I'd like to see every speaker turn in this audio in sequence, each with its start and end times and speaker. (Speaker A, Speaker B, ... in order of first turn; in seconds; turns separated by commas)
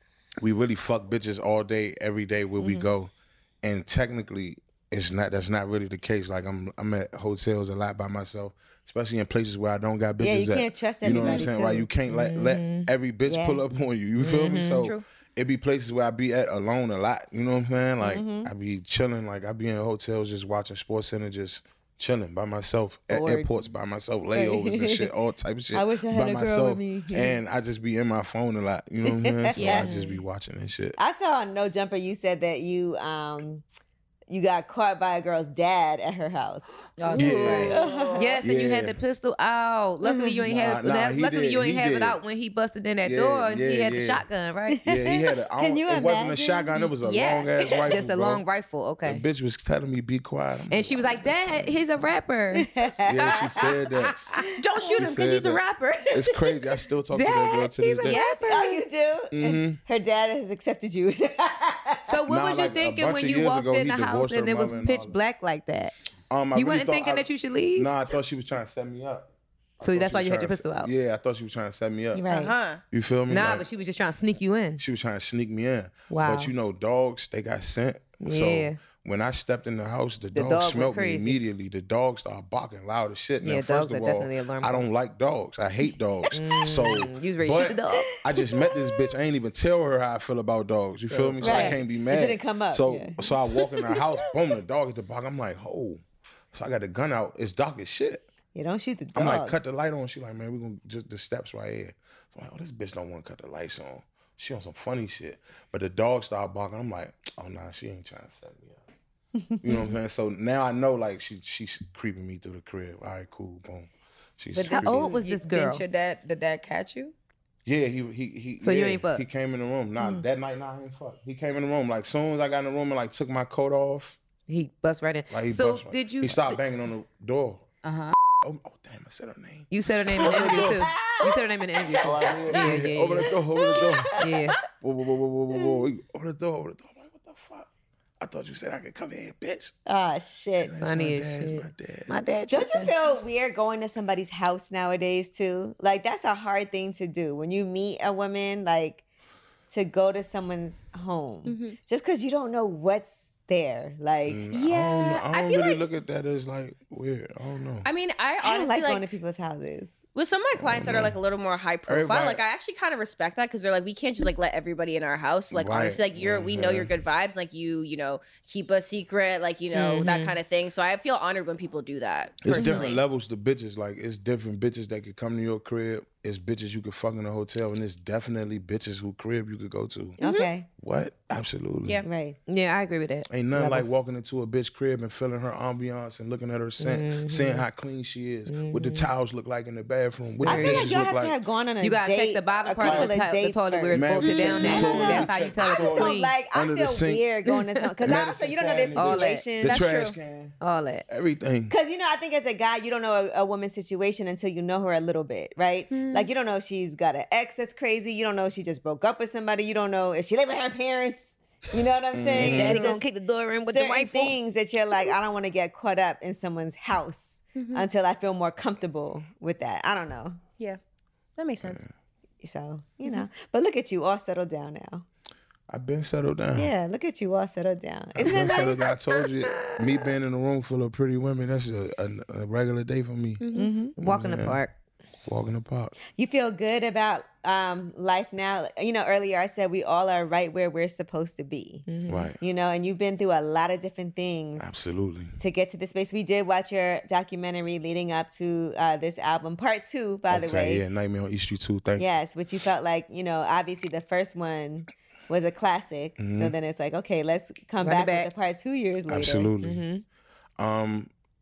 Speaker A: 0.4-31.0, Speaker B: 10.2-13.6, Speaker C: 14.2-14.8, Speaker D: 14.6-15.0, Speaker B: 18.0-18.5, Speaker C: 23.1-23.4, Speaker B: 24.3-25.1, Speaker B: 25.7-27.4, Speaker B: 29.0-29.9, Speaker C: 29.6-30.2, Speaker B: 31.0-33.6, Speaker B: 34.3-36.7, Speaker E: 37.0-37.8, Speaker A: 37.1-37.8, Speaker C: 37.1-44.8, Speaker B: 37.4-38.3, Speaker D: 37.6-38.2, Speaker A: 38.4-39.0, Speaker B: 40.0-40.4, Speaker A: 40.4-42.2, Speaker A: 43.0-44.2, Speaker B: 44.8-46.7, Speaker A: 44.8-48.4, Speaker D: 47.0-47.9, Speaker C: 47.9-49.2, Speaker A: 49.0-51.8, Speaker C: 50.7-52.9, Speaker B: 52.6-53.6, Speaker A: 53.0-54.2, Speaker D: 54.1-56.2, Speaker A: 55.0-58.2, Speaker C: 57.1-58.8, Speaker D: 58.0-58.7, Speaker B: 58.5-62.1, Speaker A: 59.3-59.8, Speaker C: 62.1-65.9, Speaker A: 62.3-65.1, Speaker A: 66.3-72.2, Speaker C: 66.5-67.9, Speaker C: 69.8-70.9, Speaker B: 72.1-72.5, Speaker D: 72.3-72.8, Speaker A: 72.9-73.7, Speaker C: 73.3-74.8, Speaker A: 74.8-96.0, Speaker C: 76.1-76.5, Speaker C: 78.2-78.8, Speaker C: 80.3-81.4, Speaker C: 83.4-84.8, Speaker C: 86.3-88.2, Speaker B: 88.4-88.8, Speaker C: 91.1-91.8, Speaker B: 91.4-94.0, Speaker A: 96.5-98.2, Speaker B: 98.5-99.6, Speaker A: 99.2-108.8, Speaker A: 109.6-115.2, Speaker E: 114.5-117.1, Speaker C: 114.7-115.8, Speaker A: 117.6-124.2, Speaker C: 118.6-119.2, Speaker C: 124.5-126.6, Speaker A: 125.3-127.7, Speaker E: 127.8-128.2, Speaker A: 128.4-131.0, Speaker C: 129.7-133.3, Speaker B: 130.2-131.2, Speaker A: 131.9-137.7, Speaker B: 133.6-134.2, Speaker C: 134.1-134.6, Speaker A: 138.2-139.7, Speaker B: 139.8-140.7, Speaker A: 140.6-142.2, Speaker C: 140.8-142.9, Speaker B: 142.5-149.0, Speaker B: 149.7-154.4, Speaker D: 151.4-151.8, Speaker A: 154.2-157.9, Speaker D: 154.5-155.8, Speaker D: 157.8-159.1, Speaker B: 158.4-160.0, Speaker D: 160.1-173.0, Speaker A: 160.6-161.2, Speaker A: 161.9-162.4, Speaker A: 165.5-166.9, Speaker C: 169.7-170.3, Speaker A: 172.4-180.2, Speaker C: 172.5-172.9, Speaker B: 180.2-180.7, Speaker D: 180.2-180.5, Speaker A: 180.8-182.0, Speaker B: 182.0-182.4, Speaker C: 182.4-183.9, Speaker A: 183.3-191.3, Speaker C: 186.8-187.6, Speaker C: 188.5-189.1, Speaker C: 190.4-191.0, Speaker B: 190.4-199.8, Speaker C: 191.8-196.3, Speaker A: 192.8-193.1, Speaker A: 193.9-197.2, Speaker A: 198.0-201.7, Speaker C: 198.9-199.5, Speaker D: 199.7-200.2, Speaker C: 200.6-201.0, Speaker B: 201.7-213.0, Speaker A: 212.1-212.9, Speaker C: 212.3-214.4, Speaker B: 213.6-220.4, Speaker D: 217.5-217.8, Speaker D: 221.4-221.8, Speaker A: 221.6-221.9, Speaker B: 222.4-225.0, Speaker A: 225.7-226.7, Speaker B: 226.6-229.0, Speaker A: 228.2-233.4, Speaker D: 233.4-233.7, Speaker B: 233.5-233.9, Speaker C: 233.9-234.7, Speaker A: 234.0-234.6, Speaker A: 235.2-235.9, Speaker B: 236.1-241.8, Speaker C: 241.8-242.3, Speaker A: 242.1-242.4, Speaker B: 242.4-244.7, Speaker A: 244.6-245.4, Speaker B: 245.4-250.8, Speaker A: 250.3-252.1, Speaker B: 252.0-259.6, Speaker A: 256.2-256.5, Speaker C: 257.8-258.3, Speaker A: 259.1-259.8, Speaker C: 259.6-259.9, Speaker A: 260.6-261.1